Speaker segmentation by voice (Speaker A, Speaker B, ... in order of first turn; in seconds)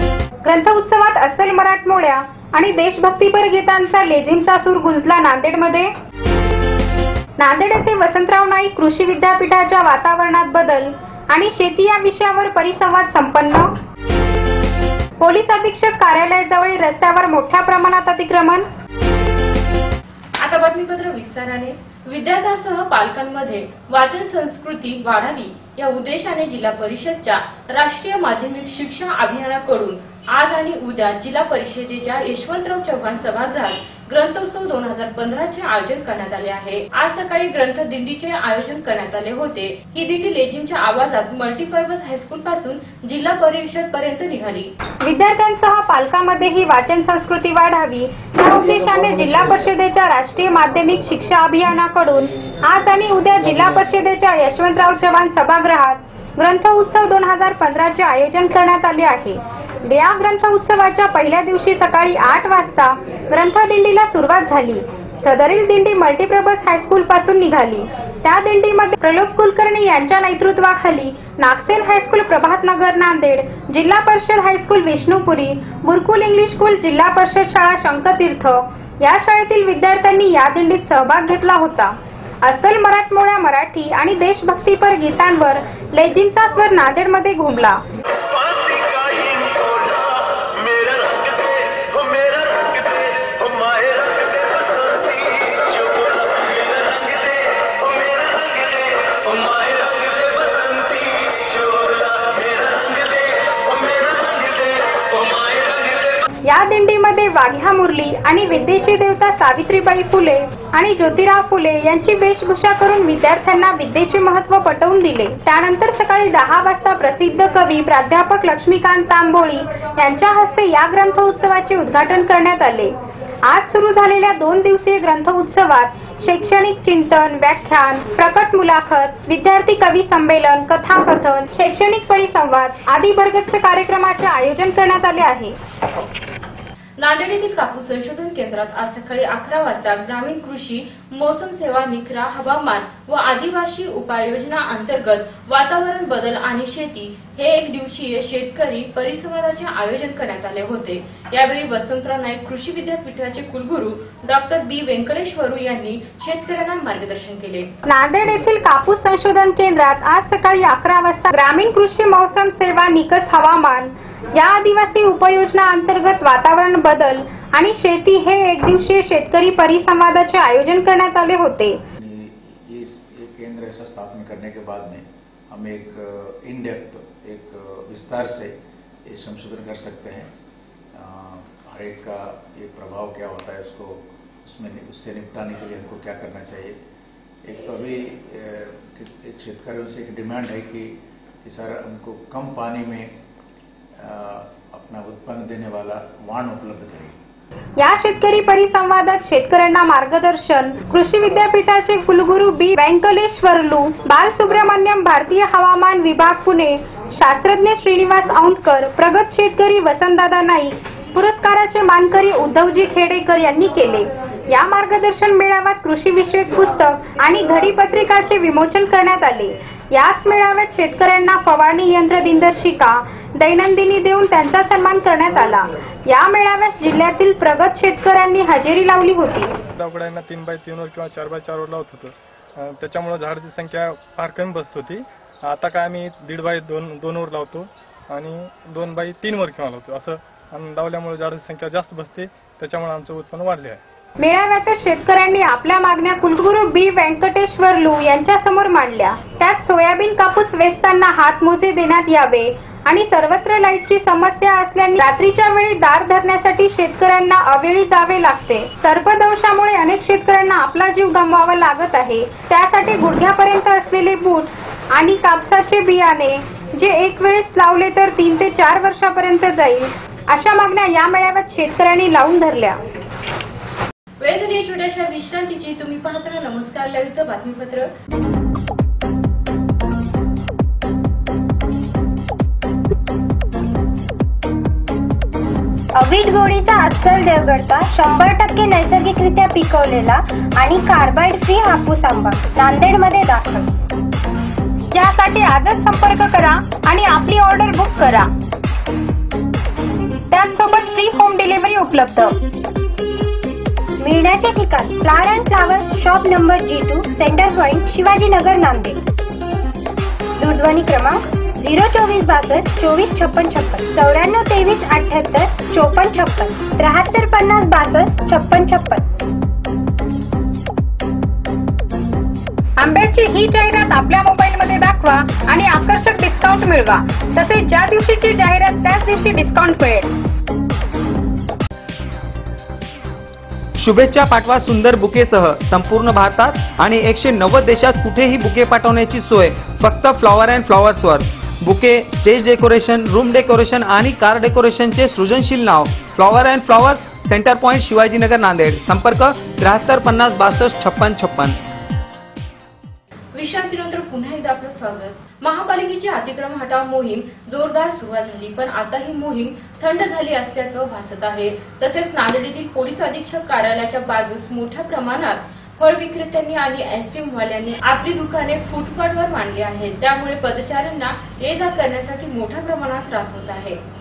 Speaker A: 0.4-5.9, 7.4-13.7, 15.2-18.6, 45.0-87.8, 106.4-135.5, 157.8-171.8, 197.8-229.5, 244.2-272.8, 294.9-298.3, 300.3-302.4, 322.8-330.1
Speaker B: 20.4-44.7, 137.0-157.7, 274.2-277.9, 353.3-373.8
Speaker C: 172.0-178.5, 179.1-180.3, 180.9-186.8, 187.4-193.1, 194.0-197.2
Speaker D: 229.8-243.8
Speaker E: 286.0-293.7, 304.0-309.0, 310.4-319.0
Speaker F: 333.8-351.5